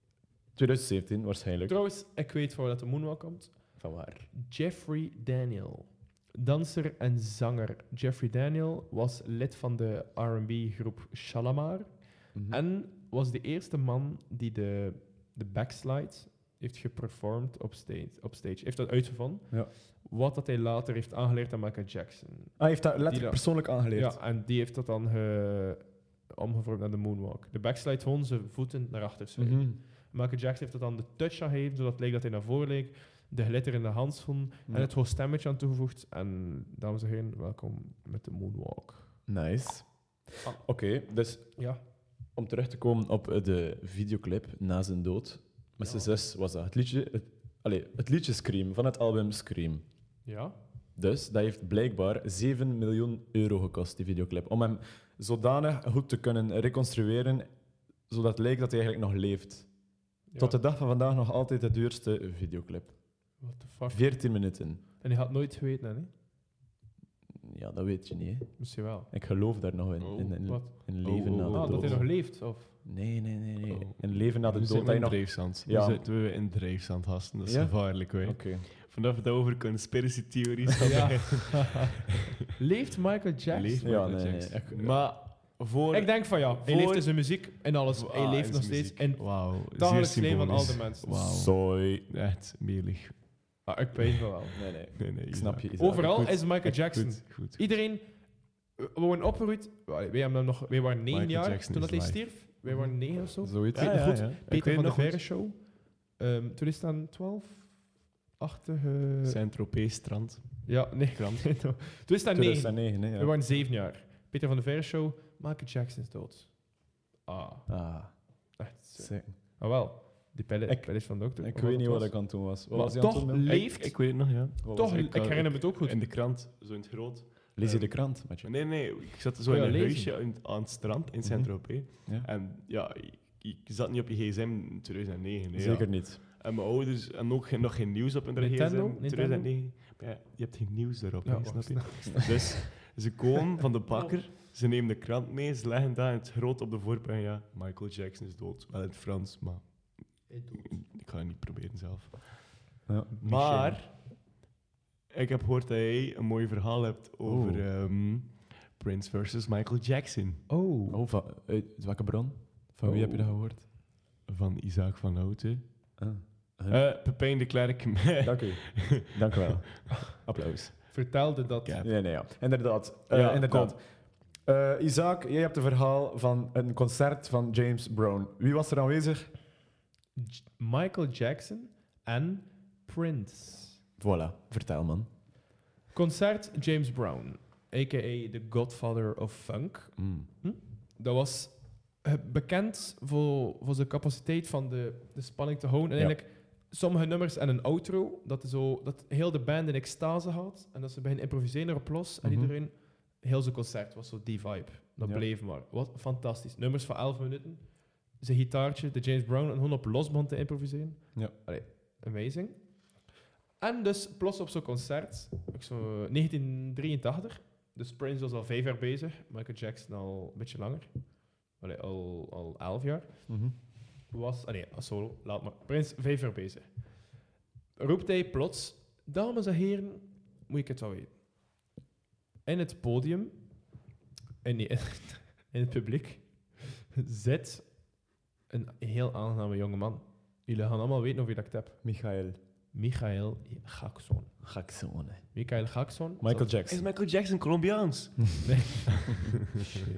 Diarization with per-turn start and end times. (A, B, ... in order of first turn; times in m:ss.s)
0:00.6-0:01.8 A
0:01.7-0:39.2 B
0:03.8-0:04.3 A
0:12.3-0:12.6 A
0:22.6-0:24.2 A
0:29.4-0:29.8 A
0:34.7-0:34.9 A
0:39.3-0:49.9 A
0:40.4-0:41.8 B
0:45.8-0:46.1 B
0:50.2-0:50.6 B
0:51.0-1:04.8 A
1:00.3-1:00.6 B
1:03.4-1:06.1 B
1:07.4-1:16.1 A
1:08.6-1:09.1 B
1:10.0-1:12.1 C
1:10.5-1:12.7 B
1:13.7-1:21.9 C
1:17.4-1:18.7 A
1:20.8-1:21.8 B
1:22.6-1:24.5 B
1:23.5-1:34.0 C
1:23.8-1:25.2 A
1:25.9-1:31.2 B
1:31.1-1:32.1 A
1:33.6-1:34.9 B
1:34.6-1:36.7 A
1:35.0-1:37.6 C
1:35.8-1:49.4 B
1:41.1-1:45.3 C
1:43.4-1:44.4 A
1:49.2-1:51.4 C
1:50.6-2:06.0 B
1:52.3-1:53.4 A
1:57.7-1:59.4 A
2:00.7-2:03.6 A
2:03.4-2:34.0 C
2:04.6-2:05.0 A
2:07.6-2:08.5 A
2:09.5-2:10.2 B
2:11.2-2:12.3 A
2:15.5-2:16.2 A
2:18.4-2:19.5 B
2:21.2-2:22.5 B
2:23.9-2:24.2 B
2:30.3-2:30.8 B
2:32.9-2:33.8 A
2:33.2-2:33.8 B
2:35.1-2:40.5 C
2:37.2-2:37.7 A
2:40.5-2:41.0 B
2:40.9-2:43.6 A
2:42.8-2:49.1 C
2:46.0-2:46.9 A
2:48.2-2:50.9 A
2:50.8-2:51.8 B
2:51.6-2:52.0 C
2:51.8-2:59.4 A
2:53.1-2:53.8 C
3:00.2-3:03.8 B
3:04.0-3:05.1 A
3:05.9-3:47.2 B
3:10.0-3:10.3 A
3:22.2-3:22.6 A
3:25.0-3:25.3 A
3:43.3-3:43.5 A
3:47.8-3:51.2 B
3:52.4-3:53.8 B
3:54.4-4:02.2 B
4:01.8-4:02.4 A
4:02.7-4:06.5 B
4:04.4-4:06.9 A
4:06.7-4:09.1 C
4:08.5-4:09.0 B